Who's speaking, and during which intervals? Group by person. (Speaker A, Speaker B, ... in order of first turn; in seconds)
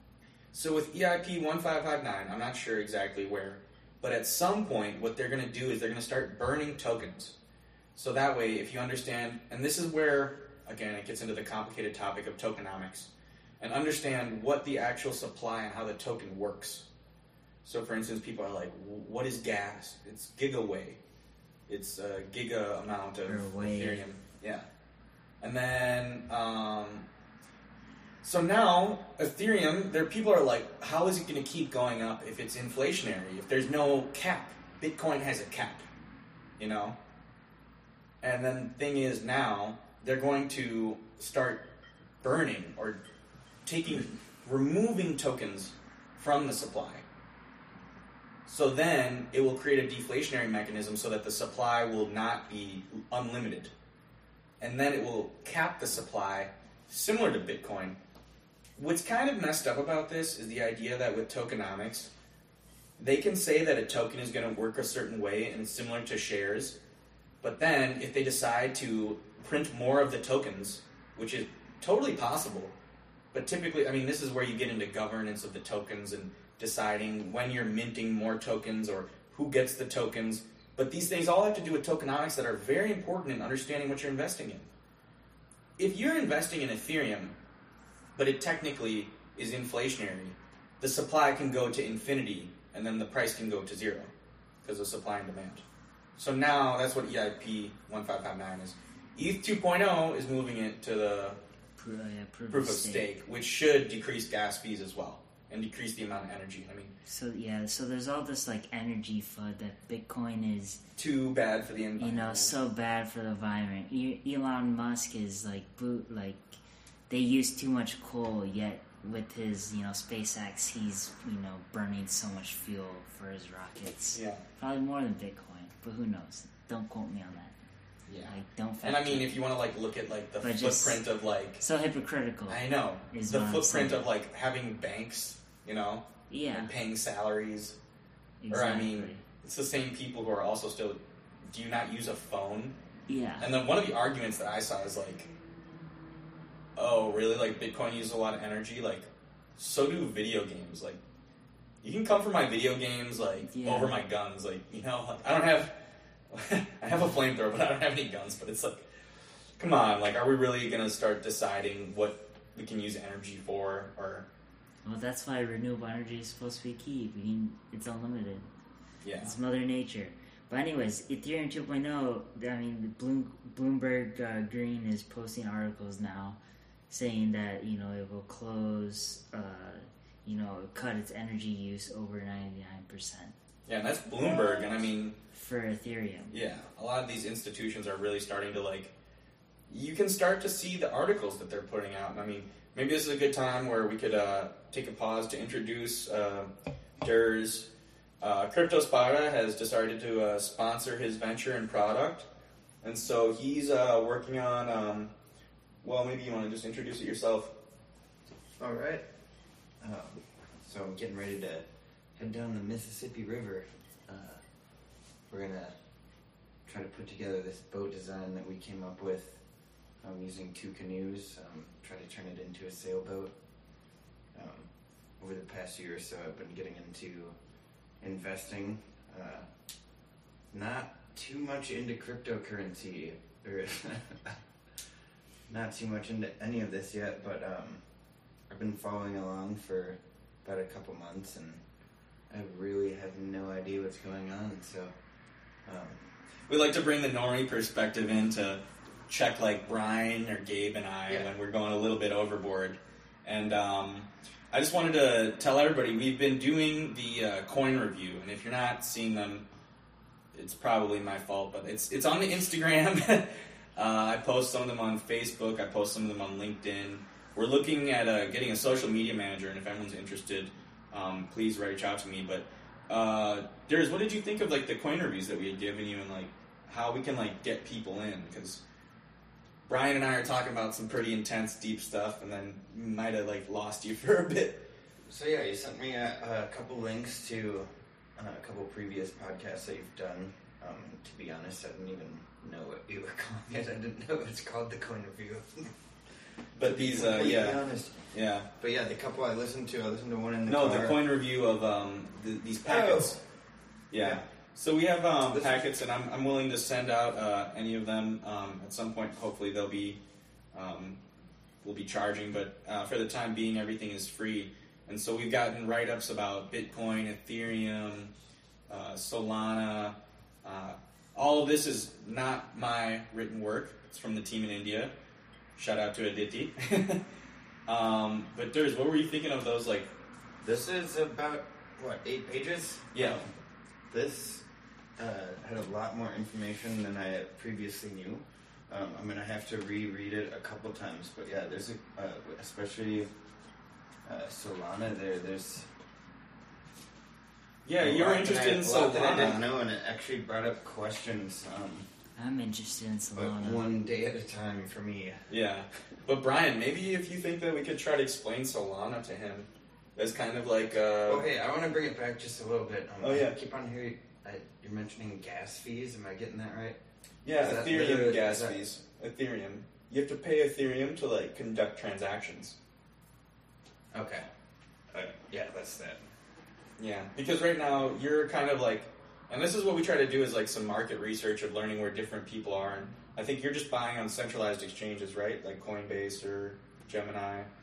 Speaker A: 0.5-7.3, 8.0-16.9, 17.6-21.0, 21.7-24.7, 25.4-27.1, 28.2-35.9, 36.6-37.0, 38.2-43.0, 43.6-47.0, 48.5-53.7, 54.6-58.0, 58.8-62.1, 63.0-66.8, 67.4-72.8, 73.3-84.7, 85.8-87.4, 88.1-94.1, 94.6-95.6, 96.2-101.4, 102.5-106.9, 111.0-112.5, 124.1-124.4, 128.1-131.6, 132.5-137.8, 138.5-142.8, 143.4-145.3, 146.8-151.0, 151.8-155.8, 156.3-158.9, 159.6-164.3, 169.0-169.3, 183.7-185.1, 186.3-188.9, 189.7-202.3, 202.8-205.1, 205.8-207.5, 246.5-259.5, 260.3-278.6, 279.7-284.7, 296.6-298.5, 300.5-303.2, 303.9-310.0, 310.5-311.0, 311.6-318.1, 318.7-324.9, 325.6-327.0, 327.7-329.9, 332.9-333.2, 347.6-349.5, 355.3-361.3, 363.0-363.4, 367.2-372.6, 376.8-387.5
Speaker B: 23.3-24.0, 101.8-103.1, 107.1-110.8, 112.0-127.5, 128.3-129.3, 130.4-131.0, 131.6-134.1, 136.3-136.7, 138.4-139.2, 143.1-143.5, 153.4-153.9, 164.8-168.5, 169.2-176.4, 176.9-183.3, 184.5-184.7, 185.3-186.3, 352.1-353.6
Speaker C: 208.6-209.0, 209.8-211.6, 212.2-214.4, 215.3-215.8, 216.7-219.4, 220.0-223.3, 224.3-227.4, 228.0-229.5, 230.5-234.4, 235.5-237.8, 238.5-241.6, 242.3-244.9, 245.6-246.0, 285.1-295.7, 296.6-301.0, 302.6-303.2, 305.3-305.6, 330.4-333.3, 333.9-334.4, 335.0-343.1, 344.1-345.7, 347.8-351.9, 353.1-355.3, 361.1-366.8, 367.4-368.6, 373.9-374.3, 374.9-376.0